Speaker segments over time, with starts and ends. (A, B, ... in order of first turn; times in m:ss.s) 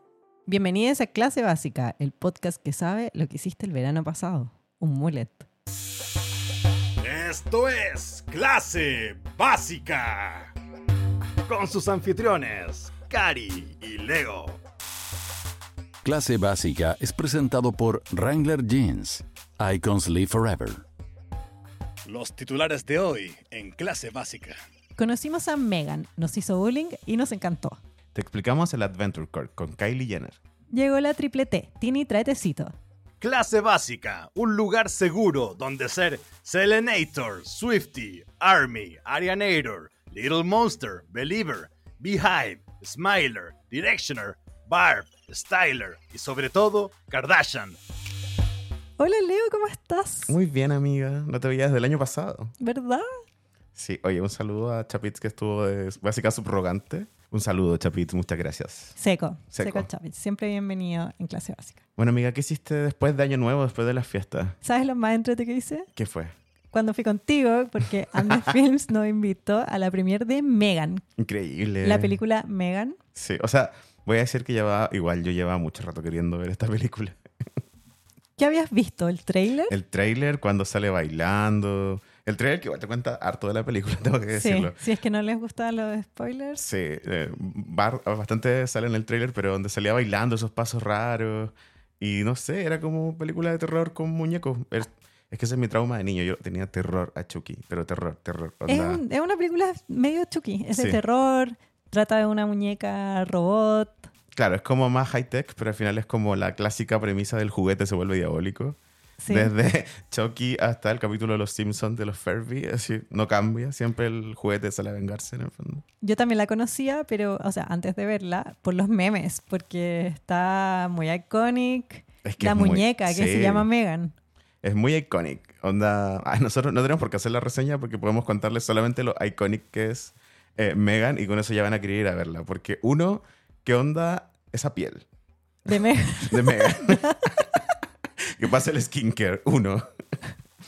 0:00.5-0:05.5 A
0:07.0-0:10.5 B
0:11.5-0:14.6 B
0:16.0-0:20.8 C
0:22.1-0:24.6 B
0:25.0-0:27.8 A
0:28.1-0:30.4 D
0:30.7-0:32.7 A
0:33.2-0:47.8 B
0:49.0-0:50.4 A
0:50.3-0:52.5 D
0:52.6-0:53.1 A
0:53.8-0:59.0 D
0:59.0-1:01.8 A
0:59.5-0:59.9 D
1:02.0-1:04.6 D
1:04.6-1:05.9 A
1:06.0-1:06.3 D
1:06.7-1:11.0 A
1:08.2-1:08.5 D
1:11.2-1:12.2 D
1:11.8-1:13.0 A
1:13.2-1:17.5 D
1:18.4-1:19.8 A
1:19.7-1:24.8 D
1:24.4-1:26.6 A
1:26.6-1:39.0 D
1:38.7-1:44.1 A
1:40.7-1:41.0 D
1:44.3-1:55.8 D
1:49.2-1:49.5 A
1:56.0-2:04.1 A
2:02.2-2:03.7 D
2:04.6-2:15.0 D
2:15.7-2:17.3 A
2:16.3-2:17.4 D
2:18.4-2:19.8 D